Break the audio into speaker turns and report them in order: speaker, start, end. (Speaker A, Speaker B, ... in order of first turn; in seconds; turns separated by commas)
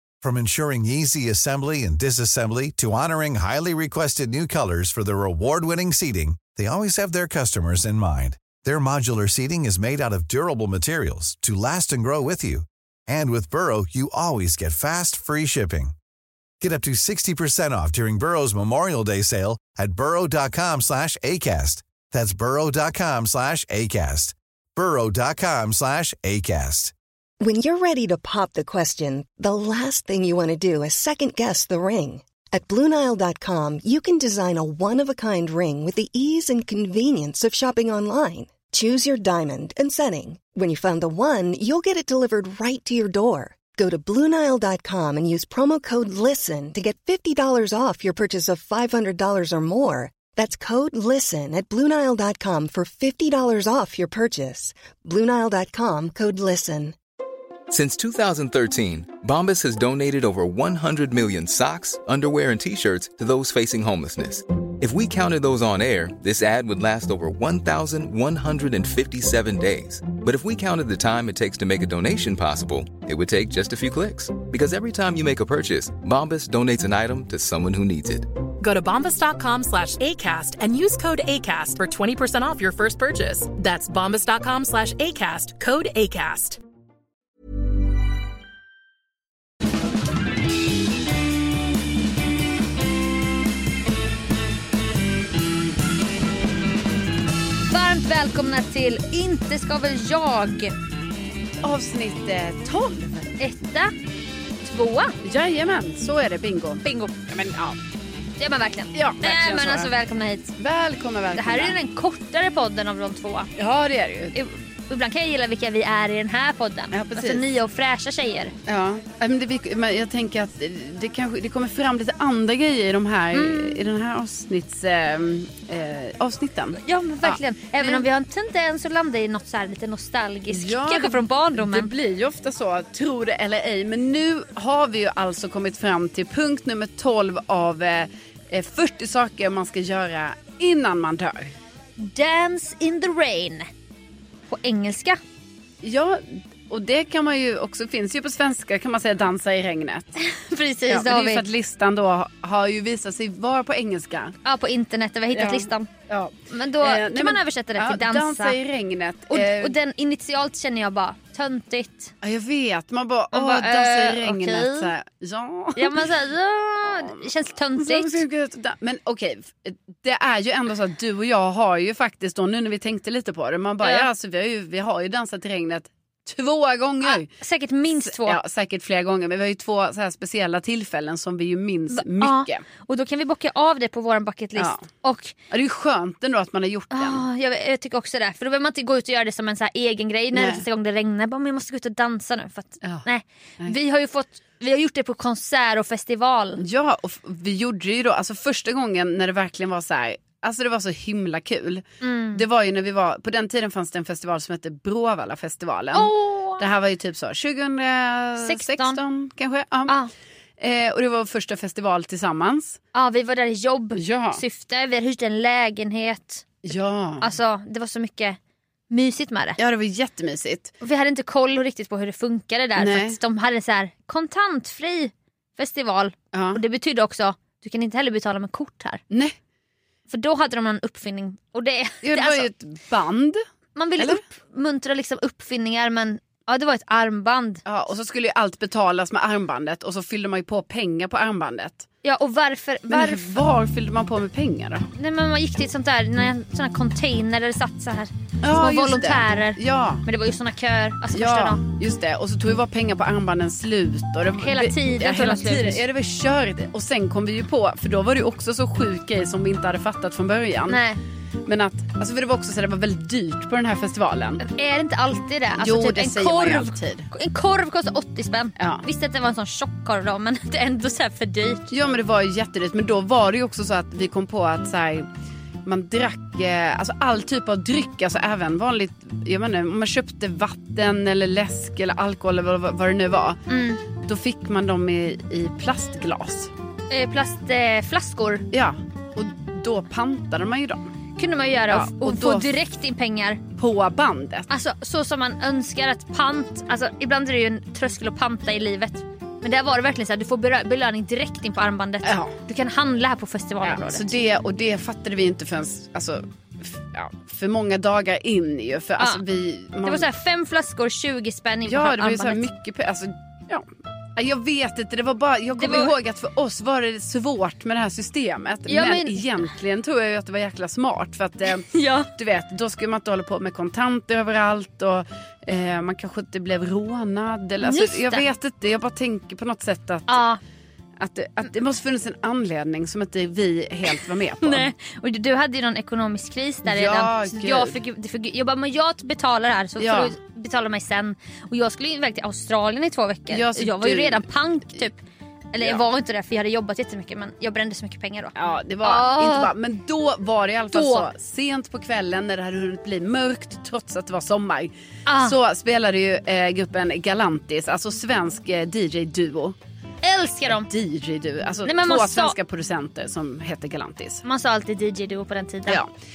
Speaker A: 0.2-15.9, Speaker A: 16.6-26.9, Speaker B: 27.4-57.0, Speaker C: 57.7-78.4, Speaker D: 78.6-86.6, Speaker E: 97.7-100.7, Speaker F: 101.6-103.3, Speaker E: 103.4-103.9, Speaker E: 104.6-105.1, Speaker F: 105.2-107.8, Speaker E: 106.8-107.1, Speaker E: 108.4-110.5, Speaker F: 108.9-109.9, Speaker F: 110.6-111.8, Speaker E: 111.3-113.5, Speaker F: 113.6-114.4, Speaker E: 114.3-118.5, Speaker F: 116.9-117.5, Speaker F: 118.7-128.1, Speaker E: 123.3-123.8, Speaker E: 126.8-131.9, Speaker F: 130.5-141.5, Speaker E: 142.0-143.7, Speaker E: 144.5-145.2, Speaker F: 145.8-150.1, Speaker E: 150.2-151.5, Speaker F: 150.9-154.3, Speaker E: 154.4-155.9, Speaker F: 155.3-159.8, Speaker E: 156.5-158.6, Speaker E: 159.3-162.1, Speaker F: 162.2-166.0, Speaker E: 163.3-164.9, Speaker E: 165.8-168.2, Speaker F: 167.8-177.3, Speaker E: 173.8-174.1, Speaker E: 177.0-178.4, Speaker F: 177.9-182.6, Speaker E: 181.9-185.3, Speaker F: 184.6-184.8, Speaker F: 185.5-187.2, Speaker E: 186.9-196.6, Speaker F: 190.3-190.6, Speaker F: 196.6-210.0, Speaker E: 202.0-202.4, Speaker E: 205.9-206.7, Speaker E: 208.4-209.0, Speaker F: 210.6-212.8, Speaker E: 212.9-216.4, Speaker F: 213.9-214.4, Speaker F: 216.6-217.3, Speaker E: 217.2-218.4, Speaker E: 218.9-219.6, Speaker F: 219.6-220.7, Speaker E: 220.8-229.0, Speaker F: 222.8-223.2, Speaker F: 226.3-226.6, Speaker F: 229.1-229.3, Speaker E: 230.1-232.5, Speaker F: 232.0-233.4, Speaker E: 233.8-237.6, Speaker F: 237.7-241.9, Speaker E: 242.0-243.4, Speaker F: 242.9-244.9, Speaker E: 245.0-251.6, Speaker F: 248.4-250.1, Speaker F: 251.1-260.8, Speaker E: 254.3-255.8, Speaker E: 260.7-261.0, Speaker F: 261.4-264.4, Speaker E: 264.4-271.7, Speaker F: 265.6-267.1, Speaker F: 268.6-268.9, Speaker F: 271.7-275.1, Speaker F: 275.6-283.4, Speaker E: 283.5-283.8, Speaker F: 284.0-286.5, Speaker E: 286.9-288.5, Speaker F: 288.5-290.9, Speaker E: 291.2-293.4, Speaker F: 291.7-292.5, Speaker F: 293.6-294.5, Speaker E: 294.5-304.1, Speaker F: 302.0-302.3, Speaker F: 303.6-310.1, Speaker E: 309.8-312.5, Speaker F: 311.7-313.6, Speaker F: 314.2-330.2, Speaker E: 315.5-315.9, Speaker E: 318.7-319.4, Speaker E: 321.5-322.1, Speaker E: 327.6-328.3, Speaker E: 330.1-330.4, Speaker F: 331.0-334.7, Speaker E: 333.9-345.0, Speaker F: 336.6-337.8, Speaker F: 339.8-340.1, Speaker F: 343.3-344.3, Speaker E: 345.5-349.5, Speaker F: 348.4-359.6, Speaker E: 350.7-351.1, Speaker E: 355.1-355.4, Speaker E: 360.0-360.7, Speaker F: 360.5-364.2, Speaker E: 361.6-362.4, Speaker E: 364.2-365.8